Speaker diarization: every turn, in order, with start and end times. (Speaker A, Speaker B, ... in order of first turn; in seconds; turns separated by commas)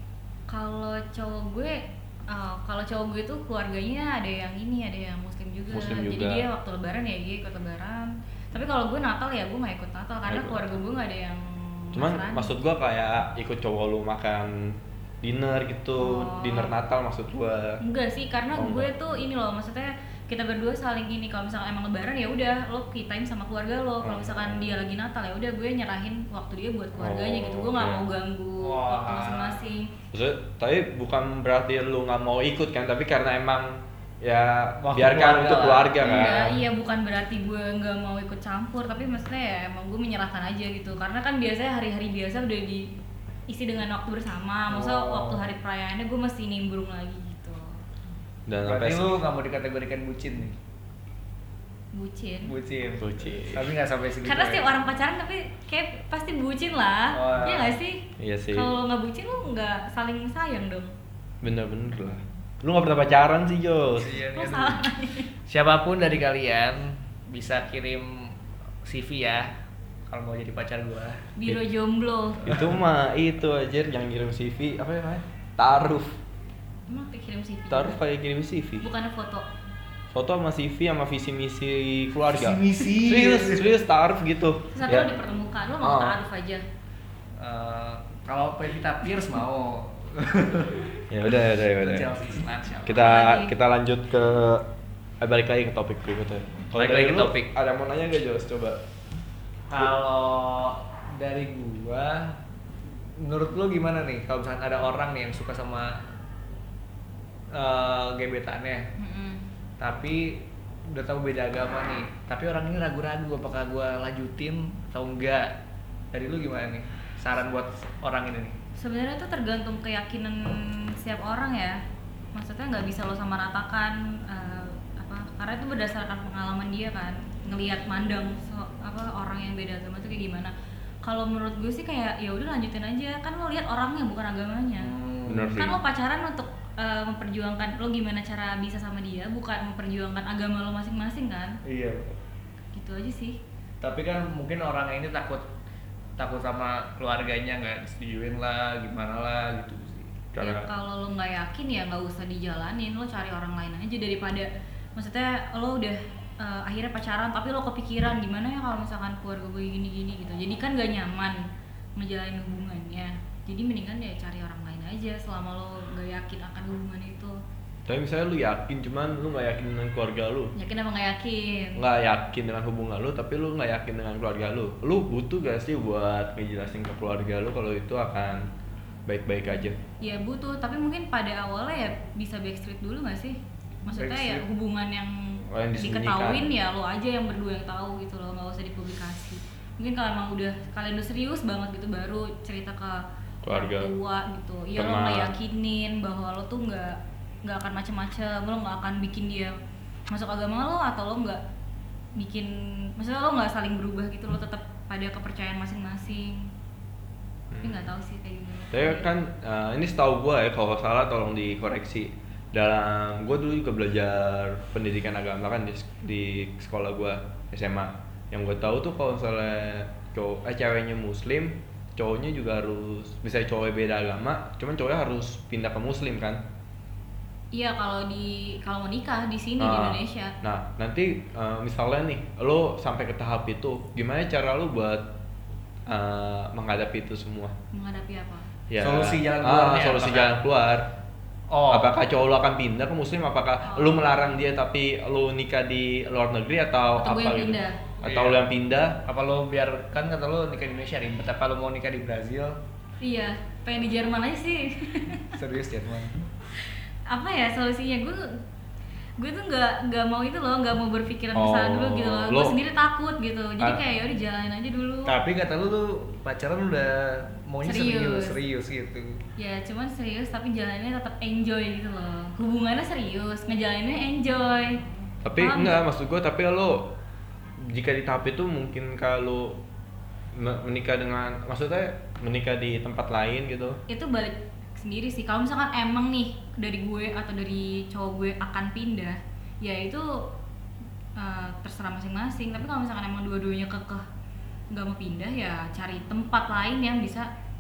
Speaker A: 0.5-12.5, Speaker B: 5.7-6.5, Speaker B: 10.3-10.7, Speaker B: 11.9-17.8, Speaker A: 16.0-16.7, Speaker A: 17.8-29.9, Speaker B: 18.6-18.9, Speaker B: 24.0-24.8, Speaker B: 27.0-28.1, Speaker C: 28.6-29.6, Speaker B: 30.1-36.6, Speaker C: 34.8-36.4, Speaker A: 36.0-42.9, Speaker A: 43.5-47.7, Speaker C: 44.7-45.5, Speaker B: 48.5-49.2, Speaker C: 48.6-50.5, Speaker A: 51.9-52.5, Speaker C: 52.5-54.7, Speaker B: 53.0-53.8, Speaker A: 54.2-60.9, Speaker C: 57.1-57.8, Speaker B: 58.2-58.7, Speaker B: 61.4-64.2, Speaker C: 64.0-64.9, Speaker A: 64.3-65.3, Speaker C: 65.5-69.5, Speaker C: 70.1-71.3, Speaker A: 71.4-72.5, Speaker B: 72.5-76.2, Speaker A: 76.9-78.0, Speaker B: 77.7-78.9, Speaker A: 78.8-79.5, Speaker B: 80.1-85.1, Speaker C: 82.3-83.7, Speaker A: 84.7-86.6, Speaker B: 85.8-86.2, Speaker C: 87.4-91.0, Speaker B: 91.1-92.1, Speaker C: 91.7-93.1, Speaker B: 92.8-94.7, Speaker A: 93.0-93.6, Speaker B: 95.2-98.8, Speaker C: 96.8-97.5, Speaker C: 99.7-102.4, Speaker C: 103.2-106.0, Speaker C: 107.5-108.9, Speaker A: 109.0-109.4, Speaker C: 109.8-115.5, Speaker C: 116.1-118.6, Speaker A: 118.8-121.8, Speaker A: 122.3-130.5, Speaker A: 131.0-134.9, Speaker C: 134.8-135.6, Speaker B: 135.3-135.8, Speaker A: 135.6-141.6, Speaker C: 141.7-142.2, Speaker A: 142.7-143.4, Speaker C: 143.8-145.4, Speaker C: 146.2-150.2, Speaker B: 150.3-150.7, Speaker A: 150.4-161.4, Speaker A: 162.0-167.3, Speaker B: 167.9-170.5, Speaker A: 170.6-171.8, Speaker B: 171.8-178.5, Speaker B: 179.1-179.8, Speaker A: 180.0-199.6, Speaker C: 183.9-184.4, Speaker B: 185.5-186.5, Speaker B: 193.4-193.9, Speaker B: 194.8-195.3, Speaker A: 200.1-201.4, Speaker A: 202.2-206.5, Speaker B: 207.5-207.9, Speaker A: 207.6-209.1, Speaker B: 208.7-226.4, Speaker A: 227.5-230.3, Speaker B: 229.6-235.1, Speaker B: 235.9-237.5, Speaker A: 237.7-238.5, Speaker B: 238.7-240.9, Speaker C: 238.8-240.4, Speaker C: 241.5-241.9, Speaker B: 241.7-249.0, Speaker A: 243.6-244.4, Speaker A: 247.0-247.8, Speaker C: 248.0-248.4, Speaker C: 249.0-252.6, Speaker A: 253.0-255.3, Speaker C: 255.3-256.2, Speaker A: 257.1-258.2, Speaker A: 259.2-265.1, Speaker B: 261.3-262.6, Speaker C: 265.1-269.2, Speaker A: 267.6-268.4, Speaker A: 269.4-274.8, Speaker B: 275.2-276.9, Speaker A: 275.4-275.8, Speaker B: 277.6-279.6, Speaker B: 280.3-283.8, Speaker A: 283.9-290.1, Speaker A: 291.2-294.1, Speaker A: 294.7-297.3